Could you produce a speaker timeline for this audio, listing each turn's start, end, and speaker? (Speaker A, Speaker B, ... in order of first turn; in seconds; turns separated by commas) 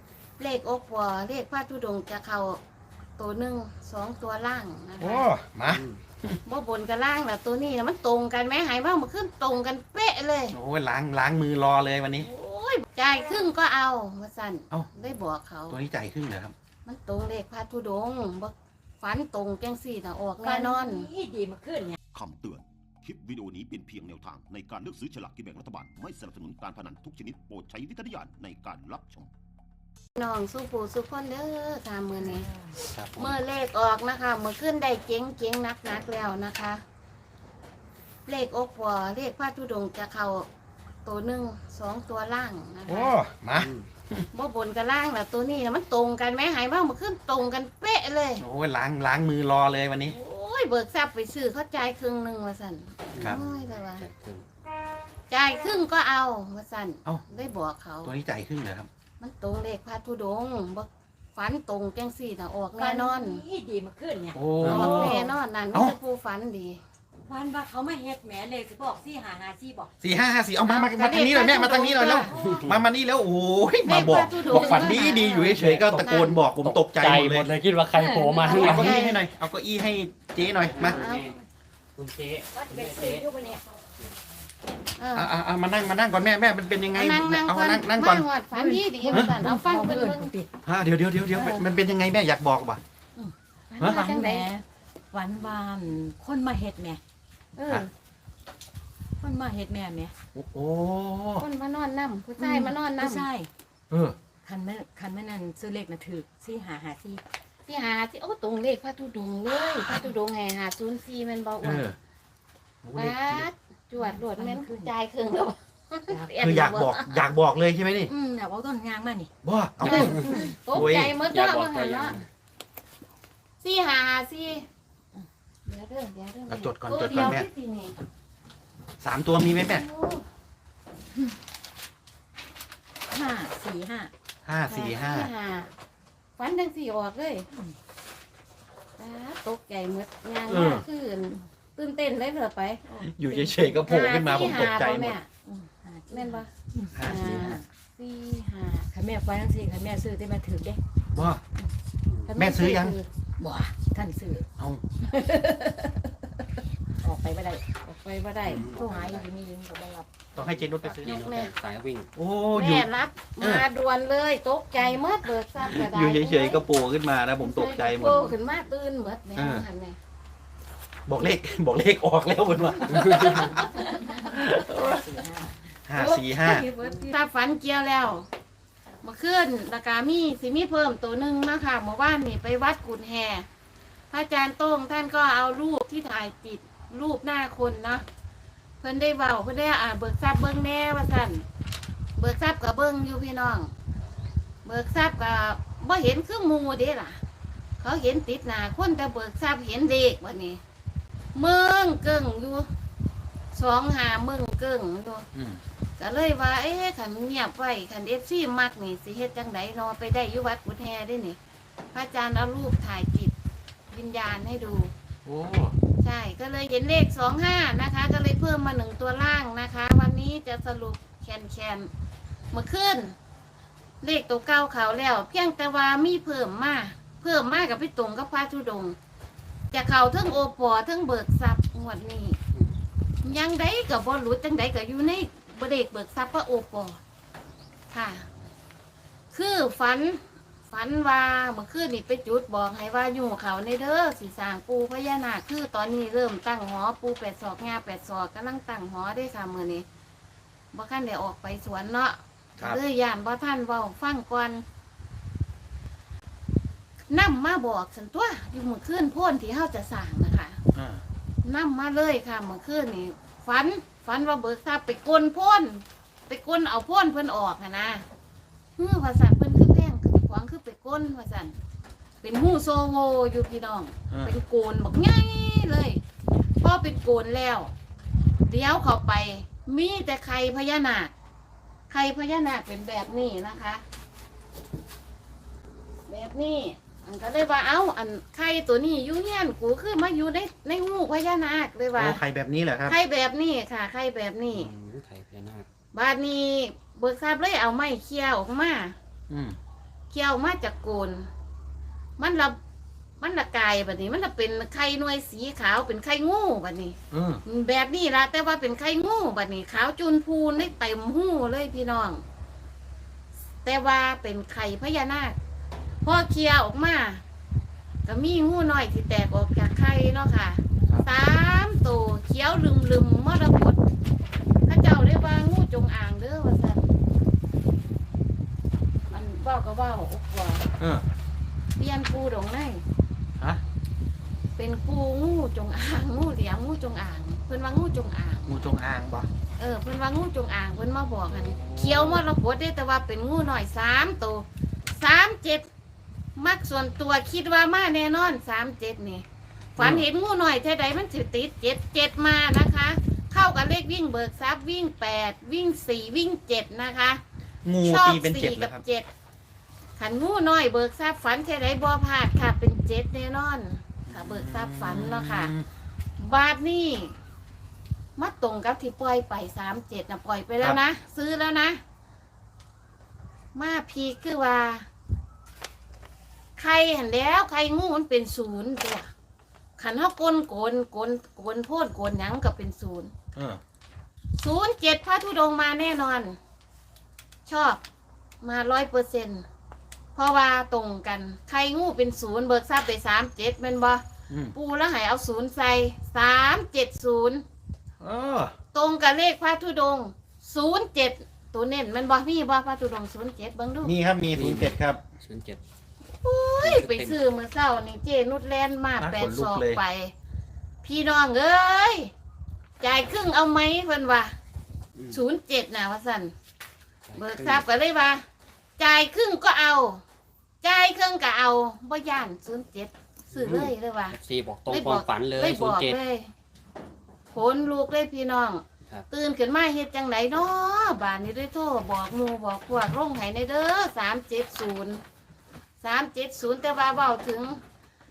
Speaker A: 0.4-2.6, Speaker A: 3.2-5.3, Speaker B: 5.0-6.4, Speaker C: 5.7-6.0, Speaker A: 6.4-10.6, Speaker B: 10.5-12.3, Speaker A: 12.2-15.8, Speaker B: 15.7-16.5, Speaker A: 16.8-21.1, Speaker D: 20.4-22.0, Speaker E: 22.1-29.3, Speaker A: 30.1-32.5, Speaker D: 32.3-32.7, Speaker C: 32.9-33.4, Speaker A: 33.1-36.8, Speaker A: 38.3-40.5, Speaker A: 41.0-43.1, Speaker B: 42.9-44.2, Speaker C: 43.6-43.9, Speaker A: 44.3-48.4, Speaker B: 48.4-50.1, Speaker A: 50.1-54.0, Speaker C: 53.1-54.4, Speaker A: 55.3-58.1, Speaker B: 58.0-58.9, Speaker A: 59.2-63.4, Speaker D: 62.8-65.3, Speaker B: 64.3-66.0, Speaker A: 64.6-66.8, Speaker D: 67.3-69.9, Speaker B: 70.0-77.5, Speaker A: 70.7-72.3, Speaker D: 72.0-72.6, Speaker C: 72.4-72.8, Speaker A: 73.8-76.4, Speaker C: 74.5-79.0, Speaker D: 77.9-79.0, Speaker B: 78.5-81.0, Speaker A: 78.5-79.2, Speaker C: 80.7-81.3, Speaker A: 80.8-81.3, Speaker C: 82.0-83.2, Speaker D: 82.5-83.6, Speaker A: 85.0-85.3, Speaker B: 85.1-88.2, Speaker A: 86.9-90.3, Speaker D: 88.5-90.5, Speaker B: 89.1-89.3, Speaker B: 90.6-92.8, Speaker A: 91.3-91.7, Speaker D: 93.2-97.0, Speaker A: 93.7-94.5, Speaker B: 93.8-94.1, Speaker A: 97.5-97.9, Speaker D: 99.2-100.1, Speaker B: 100.3-101.5, Speaker A: 101.4-103.2, Speaker D: 102.4-103.5, Speaker B: 103.9-104.2, Speaker D: 104.4-107.2, Speaker A: 107.7-111.9, Speaker B: 111.6-112.0, Speaker B: 112.8-113.5, Speaker A: 112.9-117.2, Speaker D: 114.0-114.9, Speaker D: 116.1-116.3, Speaker B: 116.4-118.1, Speaker D: 118.1-119.3, Speaker B: 119.4-121.1, Speaker D: 119.8-120.5, Speaker A: 119.8-122.2, Speaker C: 119.9-122.3, Speaker A: 123.6-124.6, Speaker A: 125.7-127.9, Speaker B: 126.5-127.5, Speaker B: 129.0-129.8, Speaker A: 129.6-130.2, Speaker D: 133.1-134.1, Speaker B: 134.4-135.3, Speaker A: 134.7-135.7, Speaker A: 136.4-137.5, Speaker A: 139.0-145.3, Speaker B: 140.5-140.8, Speaker B: 143.0-145.2, Speaker D: 145.4-147.6, Speaker A: 146.1-148.9, Speaker B: 146.9-147.5, Speaker C: 147.2-147.6, Speaker D: 148.9-150.8, Speaker B: 151.1-151.4, Speaker C: 152.1-152.3, Speaker D: 152.2-154.4, Speaker B: 152.3-153.0, Speaker D: 155.0-156.1, Speaker D: 157.0-157.6, Speaker A: 157.6-158.6, Speaker C: 158.5-159.3, Speaker D: 158.6-160.1, Speaker B: 160.3-161.2, Speaker C: 160.4-162.1, Speaker A: 161.0-161.5, Speaker B: 162.2-162.9, Speaker A: 162.5-166.6, Speaker B: 163.4-163.7, Speaker B: 165.7-168.3, Speaker A: 167.4-170.0, Speaker B: 169.3-169.7, Speaker B: 171.1-175.2, Speaker A: 173.3-174.1, Speaker D: 173.5-175.6, Speaker B: 175.9-176.7, Speaker A: 176.0-178.2, Speaker D: 176.2-177.1, Speaker A: 179.0-183.5, Speaker A: 184.1-188.0, Speaker A: 188.8-191.4, Speaker A: 192.2-193.7, Speaker A: 194.6-197.2, Speaker A: 197.8-200.6, Speaker A: 201.3-202.7, Speaker A: 203.5-205.2, Speaker B: 205.3-205.6, Speaker A: 206.0-211.4, Speaker A: 211.9-213.3, Speaker A: 213.9-214.9, Speaker B: 215.2-215.8, Speaker A: 216.0-221.9, Speaker A: 222.5-223.1, Speaker A: 224.0-228.9, Speaker A: 229.7-232.4, Speaker A: 233.2-237.0, Speaker A: 237.9-238.2, Speaker A: 239.3-249.8, Speaker A: 250.7-254.6, Speaker A: 257.1-260.6, Speaker B: 260.7-261.0, Speaker A: 261.4-268.0, Speaker A: 268.8-271.6, Speaker A: 272.2-276.0, Speaker B: 274.1-274.4, Speaker A: 276.6-277.7, Speaker A: 278.4-281.1, Speaker A: 281.9-283.8, Speaker A: 286.1-292.2, Speaker B: 291.9-293.0, Speaker A: 292.9-294.7, Speaker C: 294.5-295.7, Speaker A: 295.9-298.9, Speaker B: 299.3-299.6, Speaker A: 300.1-301.3, Speaker A: 302.2-302.6, Speaker A: 303.2-312.2, Speaker B: 307.1-307.4, Speaker A: 313.6-315.4, Speaker A: 316.0-317.2, Speaker A: 318.1-323.8, Speaker A: 324.7-326.9, Speaker A: 329.1-330.7, Speaker B: 330.8-331.0, Speaker A: 331.8-332.8, Speaker A: 334.6-338.5, Speaker B: 338.5-339.3, Speaker A: 339.6-345.7, Speaker B: 341.4-342.2, Speaker A: 346.4-349.2, Speaker A: 349.8-357.2, Speaker B: 349.8-350.1, Speaker B: 357.6-358.8, Speaker A: 357.8-359.1, Speaker A: 360.0-365.5, Speaker B: 364.1-365.7, Speaker A: 366.2-367.1, Speaker A: 368.2-371.8, Speaker A: 373.5-374.9, Speaker A: 376.6-379.1, Speaker A: 379.8-383.1, Speaker A: 384.3-386.4, Speaker A: 387.5-387.8, Speaker A: 388.4-389.4, Speaker A: 390.1-394.0, Speaker A: 394.5-397.4, Speaker B: 398.0-398.5, Speaker A: 398.7-403.9, Speaker B: 403.8-405.0, Speaker C: 404.3-405.6, Speaker A: 406.2-410.1, Speaker C: 406.6-407.2, Speaker B: 409.0-409.8, Speaker A: 410.8-412.1, Speaker A: 412.8-414.3, Speaker C: 414.9-415.2, Speaker A: 415.1-416.3, Speaker C: 417.1-417.6, Speaker A: 417.1-418.2, Speaker A: 418.8-420.0, Speaker A: 420.6-426.3, Speaker C: 423.3-426.0, Speaker A: 427.3-435.0, Speaker A: 435.8-437.6